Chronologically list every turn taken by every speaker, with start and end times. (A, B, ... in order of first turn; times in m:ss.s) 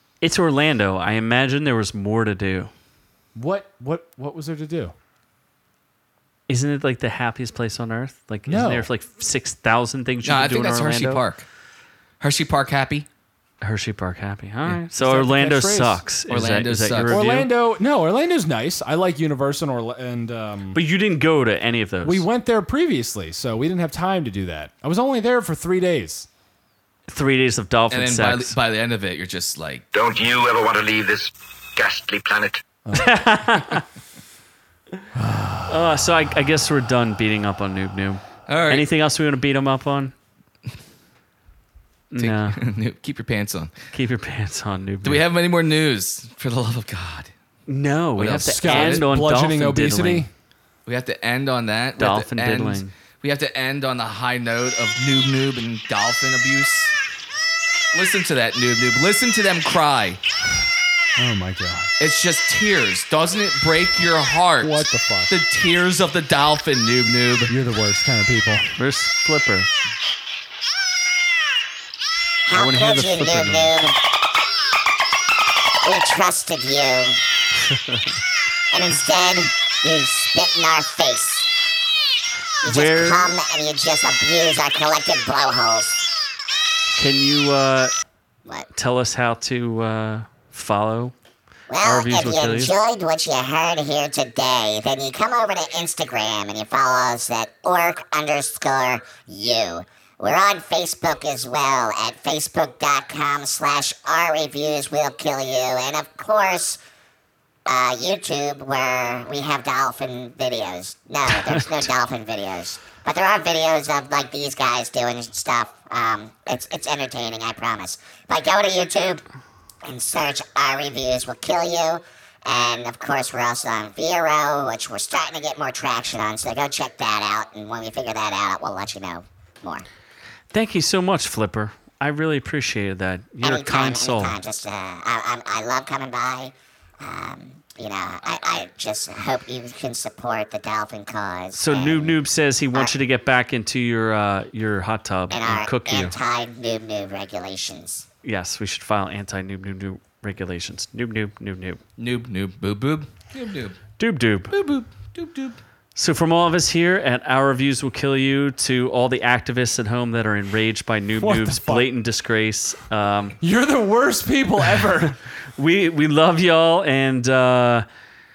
0:00.2-0:02.7 A
0:03.4-0:04.9 B
0:06.5-0:11.2 A
0:08.5-0:08.9 B
0:10.2-0:11.5 C
0:12.2-0:13.1 C
0:13.6-0:17.5 A
0:14.9-0:16.0 B
0:16.3-0:17.2 C
0:17.1-0:20.8 B
0:20.7-0:22.3 A
0:22.0-0:26.3 B
0:27.1-0:28.6 A
0:27.9-0:29.8 C
0:29.9-0:32.6 D
0:32.9-0:33.2 B
0:33.0-0:33.8 A
0:35.1-0:35.8 B
0:35.7-0:40.1 A
0:38.5-0:38.9 C
0:42.1-0:42.6 A
0:42.2-0:43.7 C
0:43.9-0:45.2 A
0:45.0-0:47.3 C
0:47.7-0:50.3 A
0:48.2-0:49.0 C
0:48.5-0:50.3 B
0:50.9-0:57.0 C
0:52.0-0:52.9 A
0:57.9-1:00.2 C
1:01.2-1:01.9 B
1:02.0-1:07.5 C
1:04.6-1:05.3 B
1:07.5-1:08.7 B
1:08.8-1:09.7 A
1:12.5-1:14.0 E
1:12.5-1:13.7 A
1:15.8-1:17.2 E
1:17.7-1:18.0 A
1:18.7-1:21.5 E
1:22.6-1:26.1 E
1:22.6-1:23.3 A
1:27.0-1:27.9 A
1:28.7-1:31.1 A
1:31.7-1:46.8 E
1:31.8-1:32.8 A
1:47.7-1:59.2 E
1:59.8-2:09.8 E
2:10.5-2:14.4 A
2:13.4-2:22.2 E
2:21.5-2:26.2 A
2:25.3-2:28.0 E
2:28.2-2:31.8 A
2:32.0-2:33.8 C
2:34.0-2:34.6 A
2:34.5-2:35.6 C
2:36.0-2:43.4 A
2:41.2-2:41.9 B
2:43.4-2:45.2 B
2:45.6-2:47.8 A